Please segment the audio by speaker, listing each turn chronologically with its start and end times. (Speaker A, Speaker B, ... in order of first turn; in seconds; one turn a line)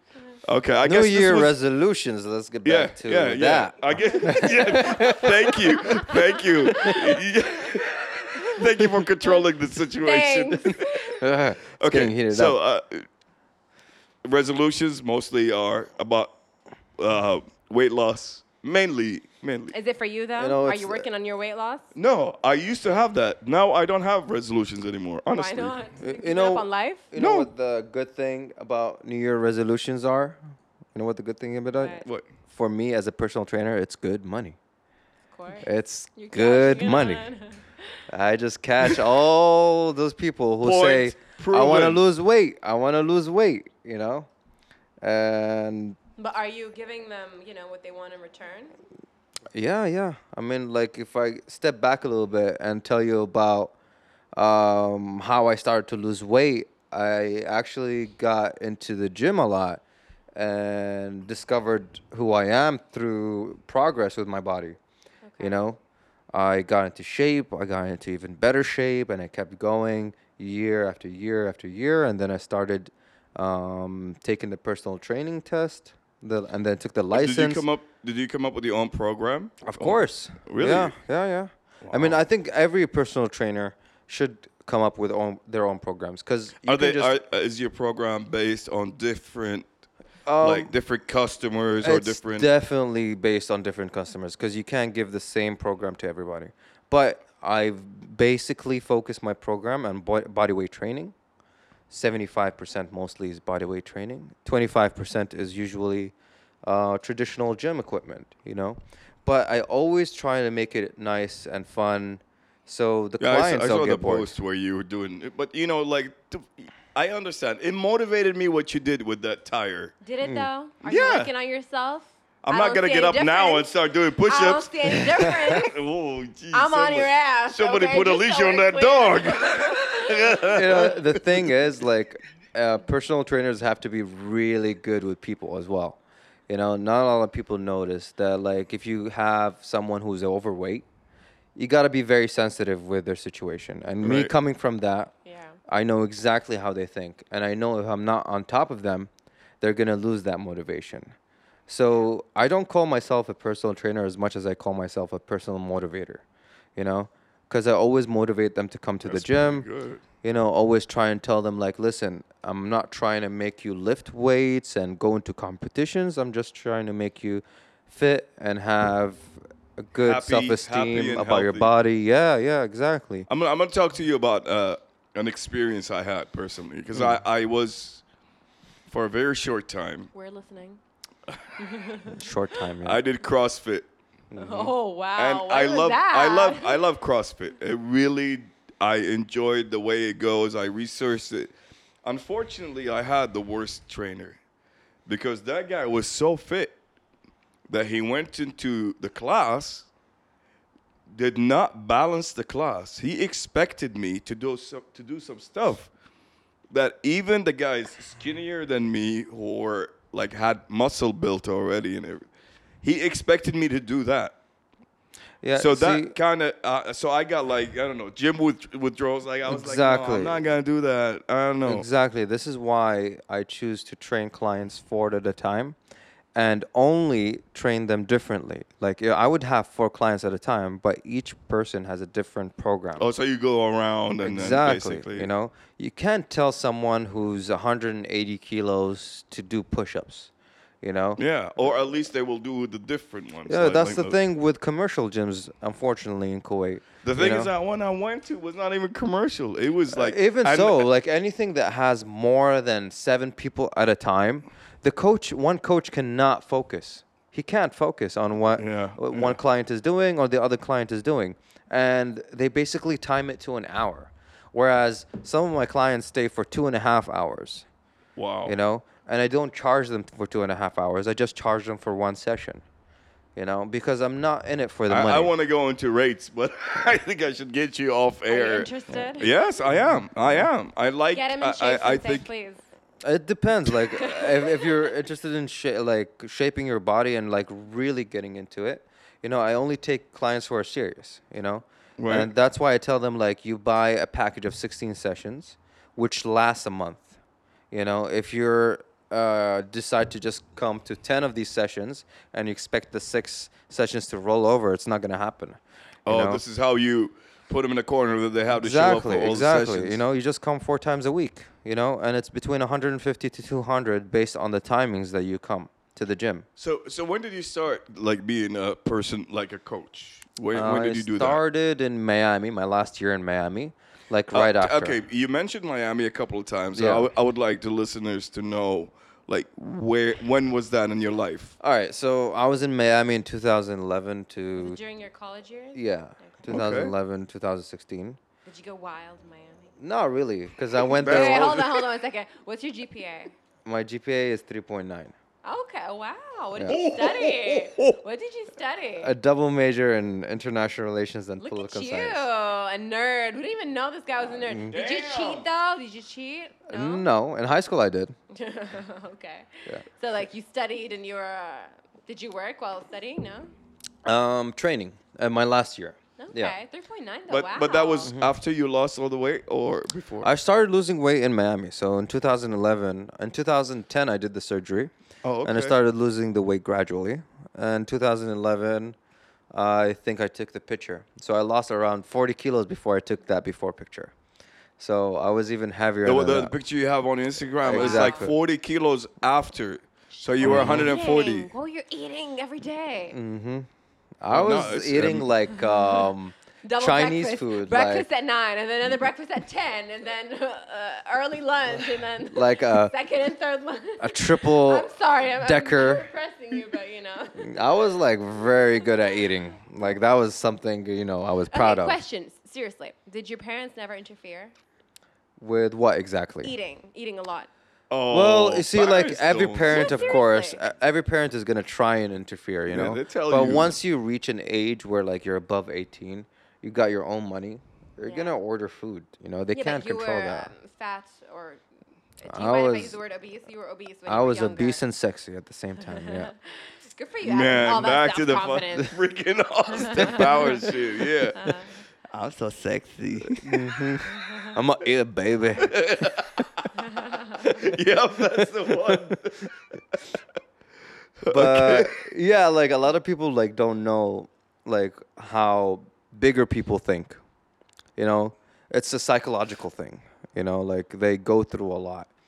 Speaker A: 0.4-1.6
Speaker B: 0.8-5.9
Speaker A: 2.6-11.1
Speaker C: 5.8-8.6
Speaker C: 10.0-11.2
Speaker B: 11.2-12.6
Speaker A: 11.8-13.1
Speaker A: 14.2-16.3
Speaker A: 17.0-19.7
Speaker C: 19.7-21.9
Speaker B: 20.4-21.1
Speaker A: 21.9-25.8
Speaker C: 25.3-27.1
Speaker B: 26.0-30.4
Speaker A: 27.2-27.5
Speaker B: 30.9-34.6
Speaker C: 31.7-32.1
Speaker C: 35.3-38.0
Speaker B: 35.6-37.3
Speaker B: 38.1-44.3
Speaker A: 40.6-42.0
Speaker B: 45.0-46.0
Speaker C: 46.2-48.7
Speaker B: 49.5-53.7
Speaker B: 54.4-59.8
Speaker B: 60.4-64.8
Speaker C: 65.3-65.7
Speaker B: 65.4-65.8
Speaker B: 66.3-77.7
Speaker A: 77.1-81.0
Speaker B: 79.6-87.2
Speaker A: 81.8-82.2
Speaker A: 86.6-89.7
Speaker B: 90.3-90.7
Speaker A: 90.4-92.5
Speaker B: 91.8-101.1
Speaker B: 101.9-114.3
Speaker A: 113.2-120.0
Speaker C: 120.0-123.7
Speaker B: 120.2-120.5
Speaker A: 120.8-121.3
Speaker A: 122.4-131.5
Speaker C: 124.3-125.8
Speaker C: 126.5-130.5
Speaker B: 130.5-140.9
Speaker B: 141.6-145.1
Speaker A: 144.0-144.3
Speaker C: 145.2-145.6
Speaker B: 145.7-149.1
Speaker B: 149.6-151.1
Speaker B: 151.7-156.2
Speaker B: 156.8-159.7
Speaker A: 159.0-160.0
Speaker B: 160.2-173.3
Speaker A: 170.0-171.7
Speaker A: 173.3-178.0
Speaker B: 176.9-177.2
Speaker A: 178.9-180.1
Speaker C: 180.1-180.8
Speaker C: 181.6-182.2
Speaker B: 182.1-183.0
Speaker A: 182.8-183.9
Speaker B: 184.3-184.7
Speaker C: 184.3-186.8
Speaker A: 185.2-191.5
Speaker A: 192.0-194.4
Speaker A: 195.1-196.8
Speaker A: 197.7-199.9
Speaker A: 201.1-205.9
Speaker A: 206.7-212.3
Speaker A: 212.8-214.3
Speaker B: 215.4-216.1
Speaker A: 215.6-221.9
Speaker B: 219.5-220.4
Speaker B: 221.7-225.8
Speaker B: 226.3-233.1
Speaker A: 233.0-235.3
Speaker B: 234.2-240.3
Speaker B: 240.8-241.2
Speaker A: 241.2-244.2
Speaker B: 243.5-247.5
Speaker A: 247.0-250.9
Speaker B: 249.9-267.7
Speaker A: 258.6-259.4
Speaker A: 268.2-268.6
Speaker B: 268.5-272.6
Speaker B: 273.4-275.3
Speaker A: 274.9-282.3
Speaker C: 278.3-279.3
Speaker B: 279.8-280.1
Speaker C: 281.1-282.6
Speaker B: 283.0-297.2
Speaker C: 283.9-284.8
Speaker A: 292.0-292.3
Speaker B: 297.7-306.4
Speaker A: 306.1-310.0
Speaker B: 308.5-316.5
Speaker A: 316.6-321.4
Speaker B: 320.5-325.0
Speaker A: 324.3-331.6
Speaker B: 326.7-327.1
Speaker B: 331.6-334.8
Speaker C: 334.6-336.5
Speaker B: 335.8-338.2
Speaker A: 336.5-336.9
Speaker C: 338.4-339.7
Speaker B: 339.8-341.6
Speaker A: 340.9-341.9
Speaker C: 341.0-343.3
Speaker B: 343.6-345.1
Speaker C: 345.4-349.1
Speaker A: 346.7-348.0
Speaker B: 349.0-352.2
Speaker C: 351.4-357.1
Speaker B: 354.4-354.7
Speaker A: 354.7-355.5
Speaker B: 356.7-358.1
Speaker C: 358.3-363.5
Speaker B: 364.1-366.6
Speaker C: 366.2-368.1
Speaker A: 367.3-370.3
Speaker B: 368.0-368.4
Speaker B: 370.2-374.9
Speaker A: 375.2-375.8
Speaker B: 375.4-379.0
Speaker B: 379.5-384.1
Speaker B: 384.8-386.5
Speaker A: 386.1-391.5
Speaker B: 387.6-388.4
Speaker C: 387.7-388.3
Speaker C: 390.3-393.2
Speaker B: 390.4-390.9
Speaker B: 393.1-393.7
Speaker B: 394.2-398.1
Speaker A: 394.3-395.3
Speaker C: 395.7-396.0
Speaker C: 396.6-407.7
Speaker B: 402.3-402.9
Speaker B: 404.0-406.1
Speaker B: 407.4-412.0
Speaker C: 411.5-414.5
Speaker B: 415.4-416.5
Speaker C: 416.4-417.5
Speaker A: 417.9-420.1
Speaker B: 418.1-430.5
Speaker C: 419.7-420.6
Speaker A: 422.7-423.8
Speaker C: 428.1-428.4
Speaker C: 429.5-431.6
Speaker C: 432.2-434.8
Speaker B: 432.3-433.0
Speaker B: 434.1-436.3
Speaker C: 435.9-438.9
Speaker A: 437.2-441.6
Speaker C: 439.8-440.8
Speaker C: 441.4-441.7
Speaker A: 442.1-443.7
Speaker B: 443.4-446.1
Speaker C: 444.1-444.5
Speaker A: 445.6-449.5
Speaker C: 446.8-447.5
Speaker A: 451.2-452.0
Speaker B: 451.3-457.2
Speaker B: 458.0-462.1